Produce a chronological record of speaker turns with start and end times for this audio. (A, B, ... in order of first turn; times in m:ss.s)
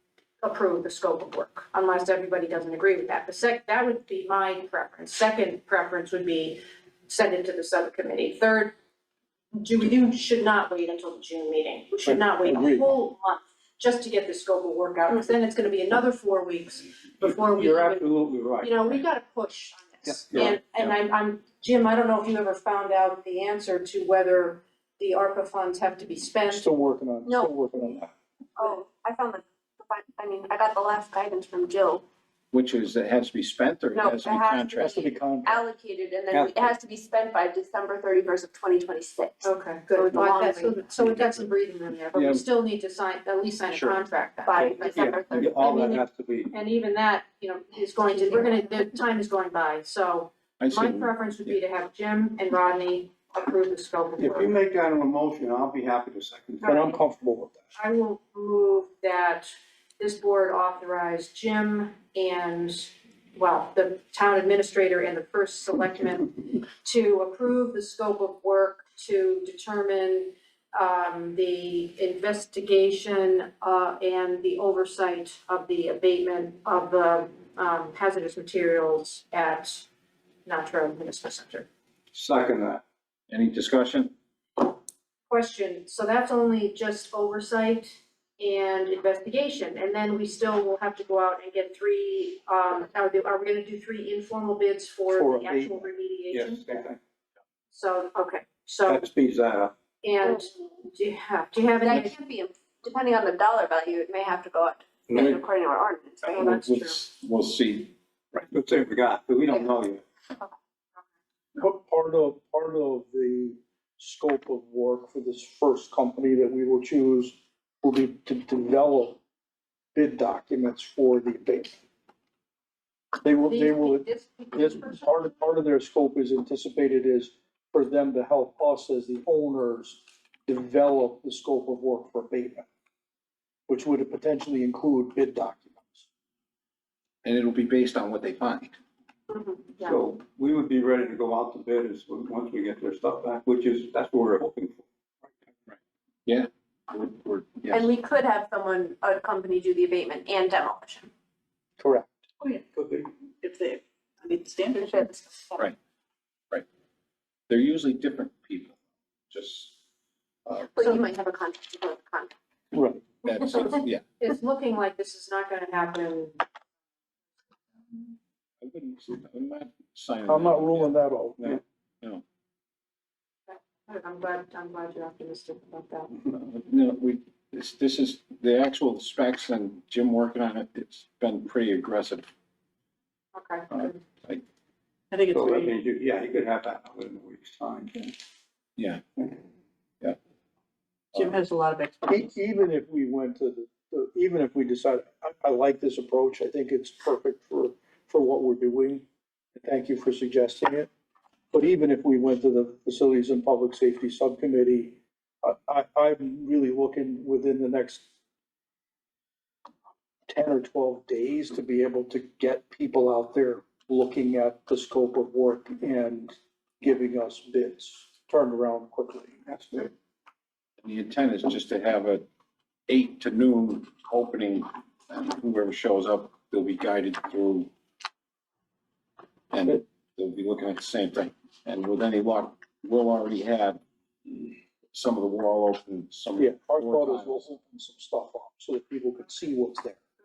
0:00.4-0:08.7 A
0:09.5-0:26.7 A
0:12.1-0:12.9 B
0:17.2-0:19.0 C
0:20.0-0:20.9 C
0:26.5-0:28.1 B
0:27.3-0:27.5 D
0:28.6-0:32.0 D
0:32.5-0:35.1 E
0:33.9-0:40.8 D
0:34.9-0:35.7 B
0:36.3-0:36.8 C
0:39.4-0:54.5 A
0:44.5-0:46.0 D
0:44.8-0:46.5 C
0:48.1-0:48.5 D
0:50.6-0:51.6 E
0:54.3-0:56.9 C
0:56.6-0:57.6 B
0:56.7-0:56.9 A
0:57.8-1:19.9 A
1:20.5-1:21.7 A
1:22.1-1:22.8 C
1:23.3-1:24.1 E
1:25.3-1:36.6 A
1:35.2-1:35.9 B
1:36.3-1:37.0 C
1:37.7-1:39.0 A
1:38.9-1:39.7 C
1:40.0-1:42.1 A
1:41.8-1:46.4 D
1:45.1-1:45.4 C
1:45.2-1:45.4 E
1:46.2-1:48.5 E
1:46.3-1:47.0 A
1:48.5-1:50.0 C
1:51.6-1:59.2 B
2:00.0-2:01.8 B
2:03.2-2:12.7 B
2:03.5-2:05.4 A
2:13.7-2:16.1 B
2:17.2-2:18.8 E
2:19.3-2:20.0 A
2:19.8-2:24.9 C
2:25.7-2:27.9 E
2:27.7-2:31.1 D
2:31.8-2:32.2 B
2:32.7-2:33.1 C
2:33.4-2:35.1 F
2:34.7-2:35.6 D
2:37.5-2:38.8 E
2:39.3-2:39.8 E
2:40.5-2:40.8 E
2:40.6-2:42.3 D
2:42.7-2:43.0 B
2:43.2-2:44.0 E
2:43.6-2:46.4 A
2:48.6-2:52.2 E
2:50.3-2:51.6 B
2:53.5-2:56.2 A
2:56.3-3:02.3 E
3:03.3-3:04.0 A
3:03.7-3:04.4 E
3:05.1-3:05.8 F
3:05.3-3:08.1 C
3:08.8-3:09.2 E
3:11.2-3:12.3 F
3:12.1-3:20.9 B
3:21.5-3:28.1 B
3:30.3-3:39.9 B
3:40.8-3:42.3 E
3:42.9-3:47.7 E
3:49.5-3:57.4 E
3:56.4-4:00.0 B